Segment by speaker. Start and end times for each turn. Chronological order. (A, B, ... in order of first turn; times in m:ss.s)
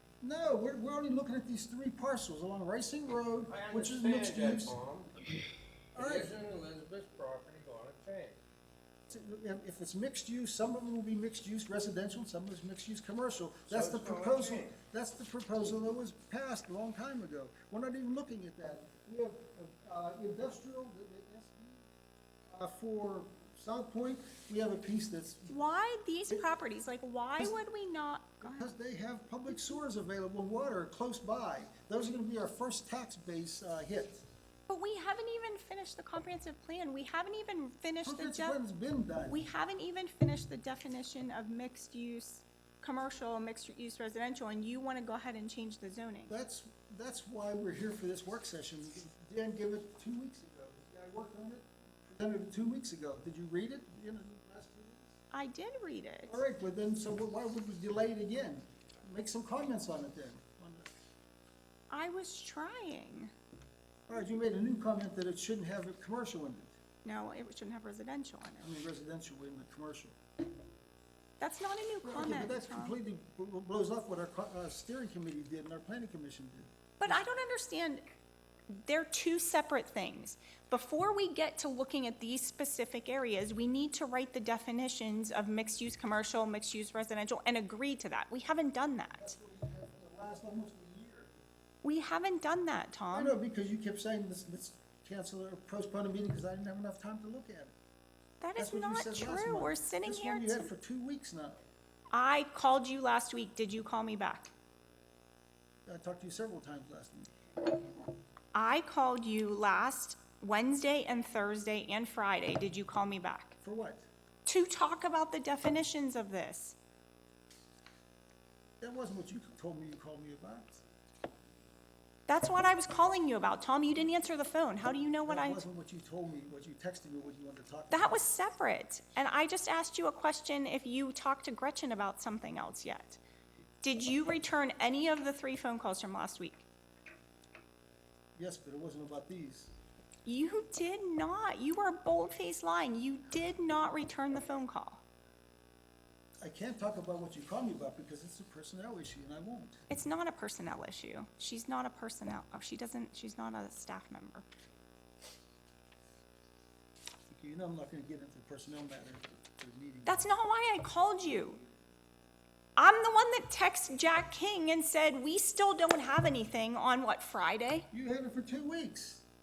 0:00.2-0:04.8 A
0:03.5-0:05.1 B
0:06.0-0:06.4 A
0:06.0-0:08.4 B
0:09.1-0:21.9 A
0:13.7-0:14.8 B
0:22.5-0:25.6 A
0:25.5-0:28.7 C
0:28.4-0:34.2 A
0:34.7-0:38.6 C
0:38.0-0:39.5 A
0:39.3-0:46.3 C
0:46.3-0:55.2 A
0:55.3-0:56.4 C
0:56.3-1:00.9 A
1:01.9-1:03.3 C
1:04.1-1:06.8 A
1:07.0-1:08.7 C
1:08.6-1:10.2 A
1:11.4-1:13.0 C
1:12.0-1:17.2 A
1:17.0-1:18.0 C
1:18.7-1:29.3 C
1:29.2-1:31.4 A
1:31.8-1:33.4 C
1:33.1-1:37.8 A
1:38.4-1:40.7 C
1:38.6-1:41.6 A
1:42.1-1:44.5 C
1:45.9-1:47.3 A
1:48.5-1:53.6 C
1:53.6-1:54.1 A
1:54.5-1:56.8 C
1:58.8-2:00.8 A
2:02.3-2:05.6 C
2:05.2-2:08.3 A
2:07.9-2:13.2 C
2:13.8-2:16.6 C
2:18.4-2:19.7 A
2:20.3-2:25.0 C
2:26.4-2:29.8 A
2:29.9-2:34.4 C
2:37.3-2:40.2 A
2:40.1-2:41.6 C
2:42.8-2:47.9 C
2:47.9-2:49.2 A